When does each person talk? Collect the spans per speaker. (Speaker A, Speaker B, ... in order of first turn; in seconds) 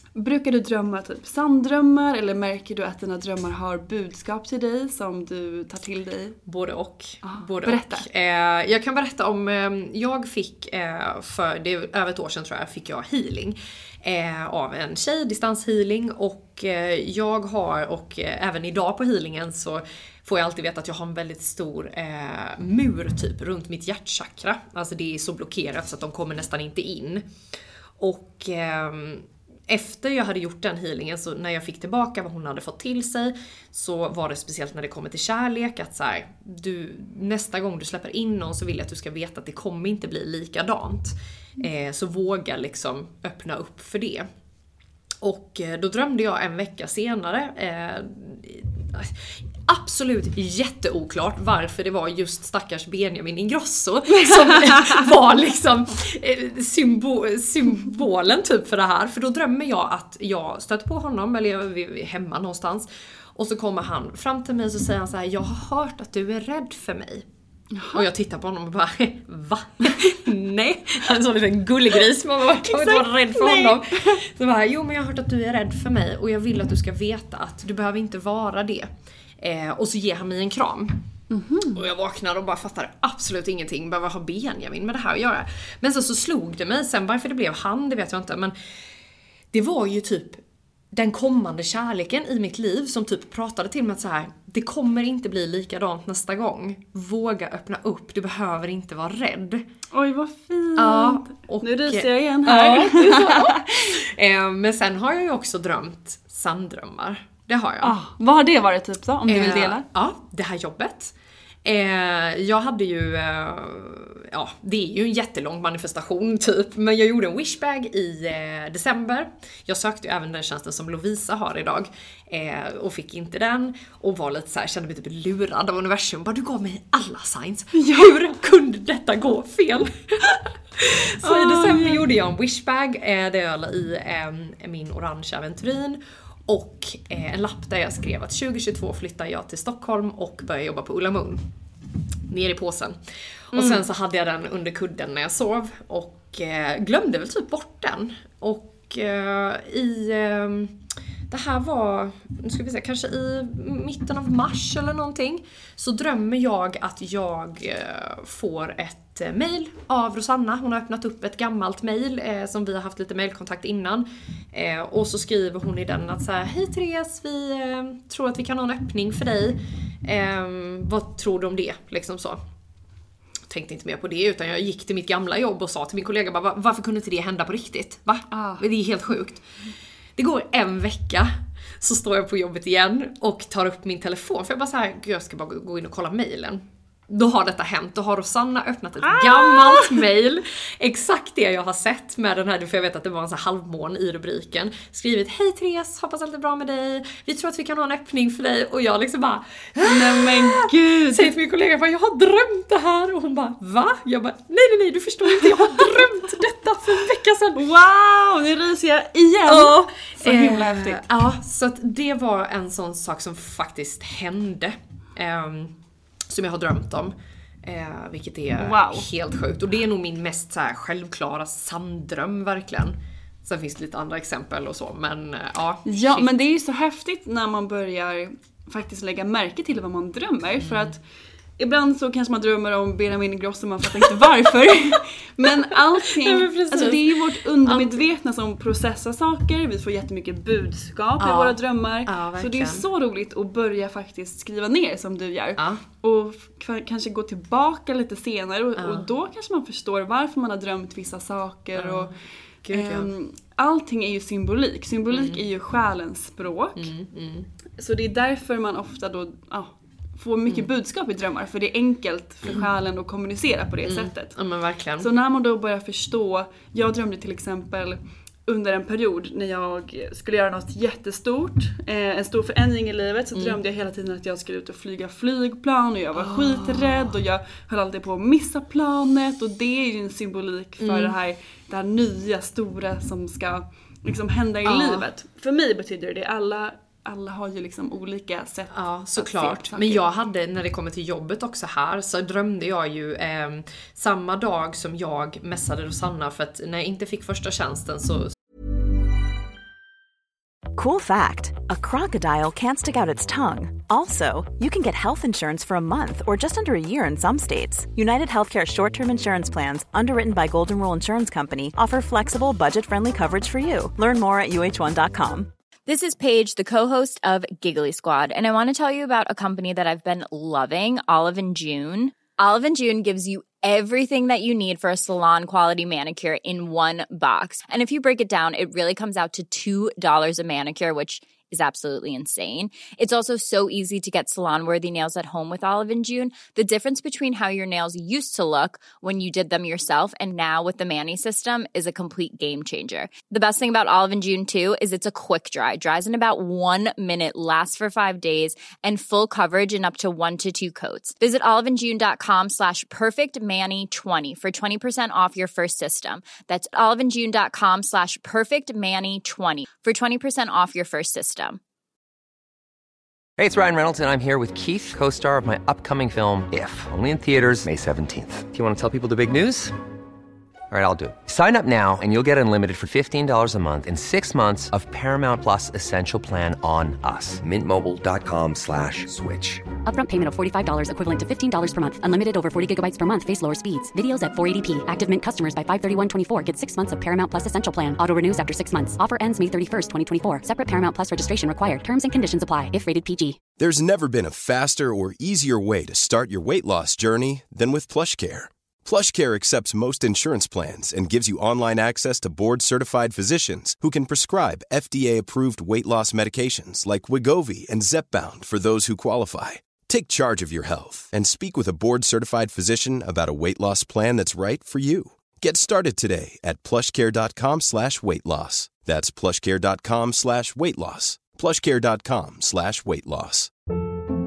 Speaker A: 0.1-6.4, 7.2-8.1, 54.1-55.1, 67.7-68.0, 72.6-74.2, 81.3-81.8, 99.9-103.9, 107.8-109.8, 127.7-128.2, 131.2-132.0, 143.5-143.8, 178.3-178.6, 189.0-190.0, 199.8-201.3, 205.3-206.3, 207.5-211.1, 218.6-219.1, 225.8-231.0, 231.6-252.2, 252.7-256.9, 257.8-264.3, 265.0-290.0
Speaker B: 6.5-27.2, 28.0-44.3, 45.2-67.2, 67.9-81.0, 81.7-88.5, 89.5-99.6, 100.8-108.0, 109.2-141.4, 142.3-143.0, 143.5-172.4, 173.5-179.4, 180.2-207.7, 209.4-215.7, 216.3-226.3, 230.6-231.0, 235.4-238.0, 241.2-242.8, 245.6-245.8, 248.8-249.1, 251.7-253.1, 255.1-255.4, 256.8-257.5, 263.8-265.1, 273.3-273.6, 276.1-277.1, 280.8-281.1, 284.6-285.1, 288.7-298.3
Speaker C: 300.7-315.5
Speaker D: 315.9-361.6
Speaker E: 363.4-369.7, 370.7-379.6
Speaker F: 379.9-393.4
Speaker G: 393.6-423.5